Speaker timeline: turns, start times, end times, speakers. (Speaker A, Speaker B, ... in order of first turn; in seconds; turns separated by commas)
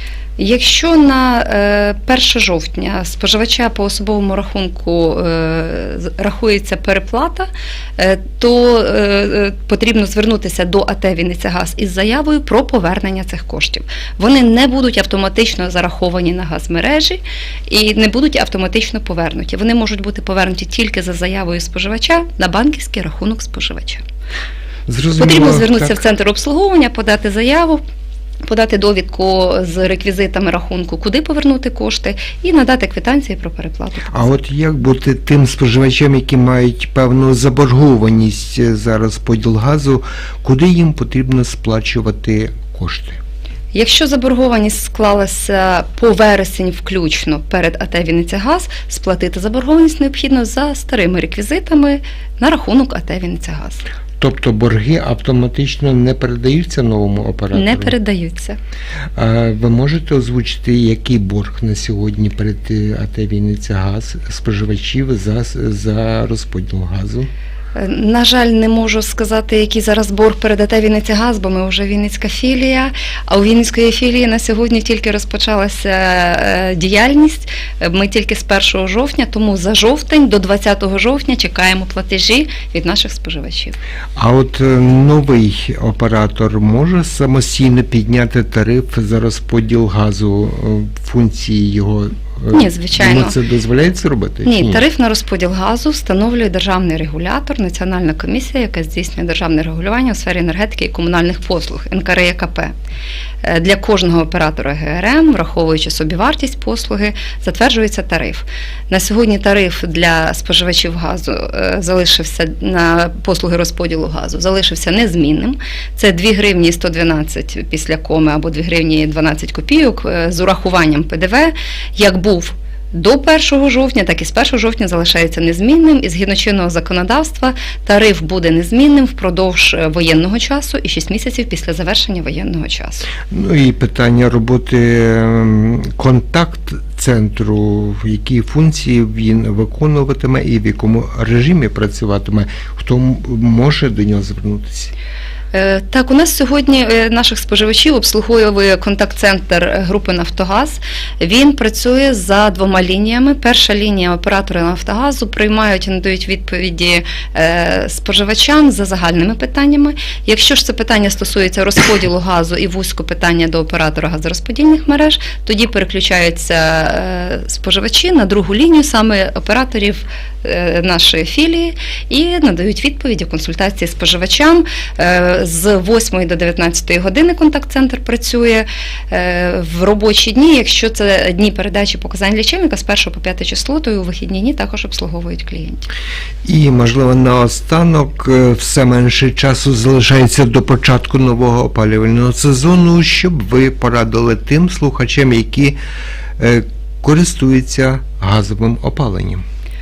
Speaker A: 0.4-24.0, Speaker B: 24.9-26.0, Speaker A: 25.1-27.8, Speaker A: 28.4-34.3, Speaker B: 34.1-43.2, Speaker A: 43.7-53.8, Speaker B: 54.2-57.9, Speaker A: 57.5-58.6, Speaker B: 59.1-67.3, Speaker A: 67.7-83.8, Speaker B: 84.2-94.8, Speaker A: 92.5-93.3, Speaker A: 94.4-102.7, Speaker A: 103.4-133.1, Speaker B: 133.3-144.9, Speaker A: 145.5-185.9, Speaker B: 186.4-195.8, Speaker B: 196.4-199.4